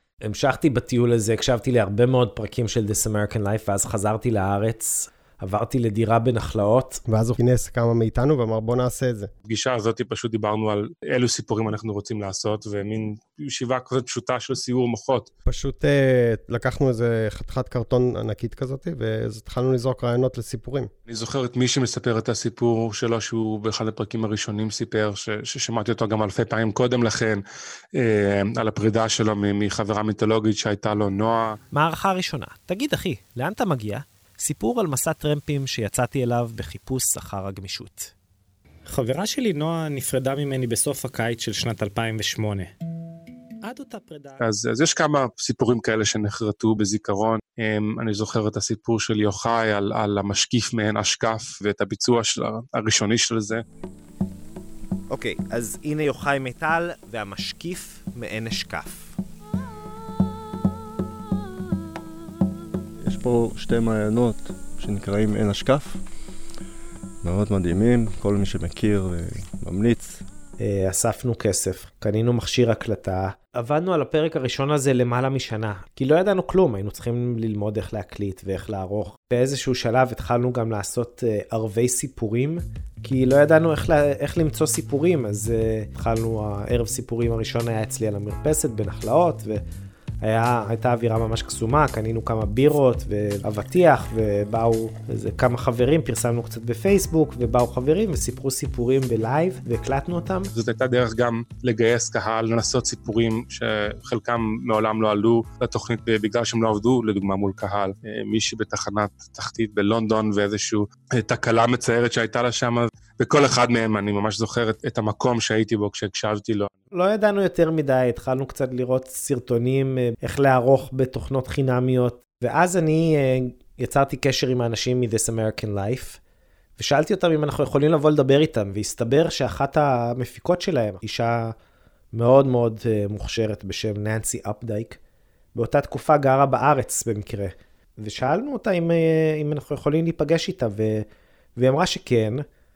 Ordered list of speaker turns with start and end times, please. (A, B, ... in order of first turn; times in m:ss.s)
0:00.3-0:07.0 A
0:07.1-0:09.3 B
0:09.5-0:15.3 C
0:15.5-0:20.9 B
0:21.1-0:27.4 C
0:28.0-0:31.6 C
0:31.7-0:38.1 A
0:38.9-0:42.7 A
0:43.6-0:44.4 A
0:44.4-0:53.6 C
0:55.1-0:59.2 A
1:03.0-1:06.0 D
1:07.2-1:10.2 D
1:10.6-1:29.6 A
1:30.2-1:40.5 A
1:40.6-1:56.7 C
1:56.9-2:06.2 A
2:06.8-2:11.5 A
2:12.1-2:15.0 A
2:15.6-2:21.0 A
2:21.6-2:22.4 A